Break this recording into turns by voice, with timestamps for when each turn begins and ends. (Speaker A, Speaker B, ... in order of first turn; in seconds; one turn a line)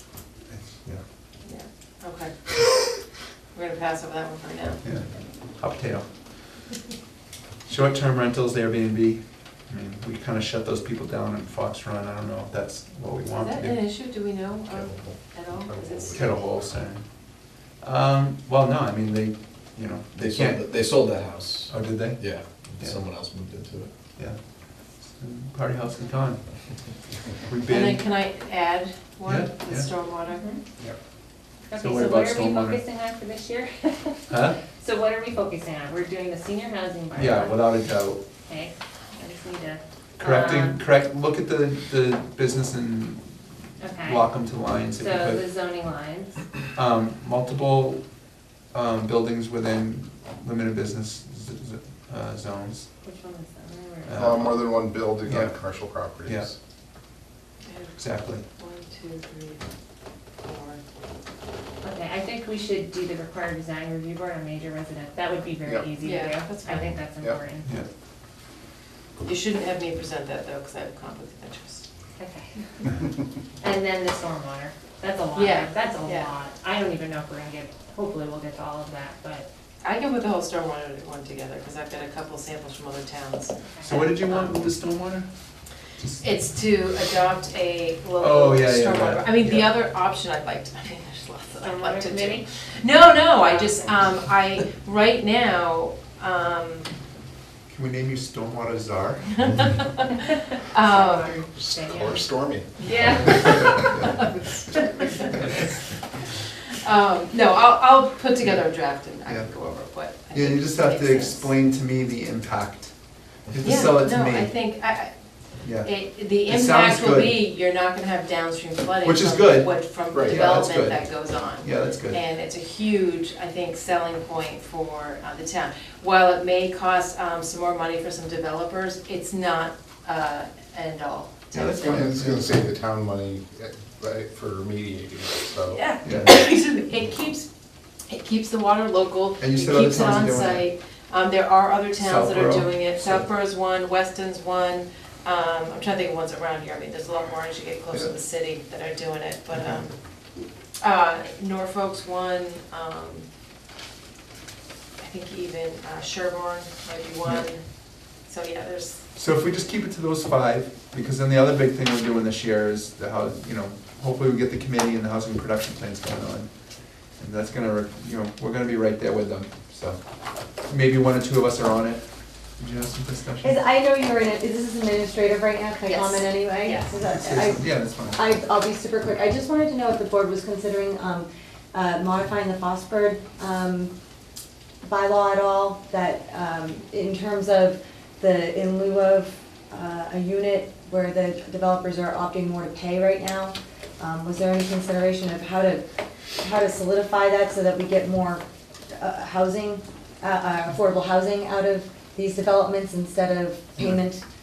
Speaker A: 0.5-1.0
Speaker B: 1.4-2.5
Speaker B: 3.5-4.8
Speaker A: 4.8-6.6
Speaker A: 7.7-13.8
Speaker B: 13.3-16.2
Speaker C: 14.7-15.3
Speaker D: 15.7-16.5
Speaker A: 16.1-20.9
Speaker C: 20.1-23.9
Speaker A: 21.7-23.0
Speaker A: 24.2-26.8
Speaker A: 27.4-28.0
Speaker B: 27.7-30.4
Speaker A: 29.2-29.9
Speaker E: 30.3-30.6
Speaker E: 31.6-37.6
Speaker A: 31.8-32.8
Speaker A: 34.3-34.6
Speaker A: 37.1-38.2
Speaker E: 38.4-40.8
Speaker A: 40.2-45.4
Speaker E: 43.8-44.2
Speaker E: 44.9-46.5
Speaker A: 46.7-48.0
Speaker A: 48.7-52.9
Speaker E: 53.0-54.5
Speaker A: 54.1-54.6
Speaker D: 54.1-56.5
Speaker A: 55.2-55.6
Speaker A: 56.2-56.5
Speaker B: 57.6-57.9
Speaker A: 58.0-58.4
Speaker B: 58.6-59.7
Speaker B: 60.4-60.8
Speaker E: 61.8-67.8
Speaker B: 66.0-66.9
Speaker B: 69.2-71.9
Speaker E: 72.2-73.0
Speaker E: 73.6-79.5
Speaker B: 75.3-76.3
Speaker B: 79.8-83.5
Speaker E: 83.7-84.5
Speaker A: 83.8-85.3
Speaker B: 86.2-96.9
Speaker A: 88.2-89.8
Speaker E: 91.6-92.4
Speaker E: 93.4-93.8
Speaker A: 97.7-99.6
Speaker B: 99.4-101.3
Speaker E: 100.8-102.3
Speaker D: 101.4-104.0
Speaker E: 102.8-104.1
Speaker B: 102.8-105.7
Speaker B: 106.7-111.5
Speaker A: 109.2-109.5
Speaker A: 110.3-113.0
Speaker A: 113.5-114.5
Speaker B: 113.6-115.1
Speaker A: 115.6-115.9
Speaker B: 115.8-132.0
Speaker A: 116.5-117.4
Speaker A: 119.0-122.2
Speaker D: 120.1-120.5
Speaker A: 131.5-132.5
Speaker D: 131.9-135.9
Speaker B: 135.7-137.4
Speaker A: 136.0-136.3
Speaker B: 138.1-149.9
Speaker A: 139.4-140.7
Speaker A: 141.9-143.2
Speaker A: 149.6-149.8
Speaker B: 150.8-153.2
Speaker B: 155.0-159.0
Speaker A: 159.1-166.5
Speaker A: 167.2-170.0
Speaker A: 170.6-172.0
Speaker A: 172.6-173.6
Speaker F: 173.4-183.9
Speaker B: 175.8-176.9
Speaker A: 177.1-178.2
Speaker F: 184.8-195.8
Speaker F: 196.4-198.4
Speaker F: 198.9-204.2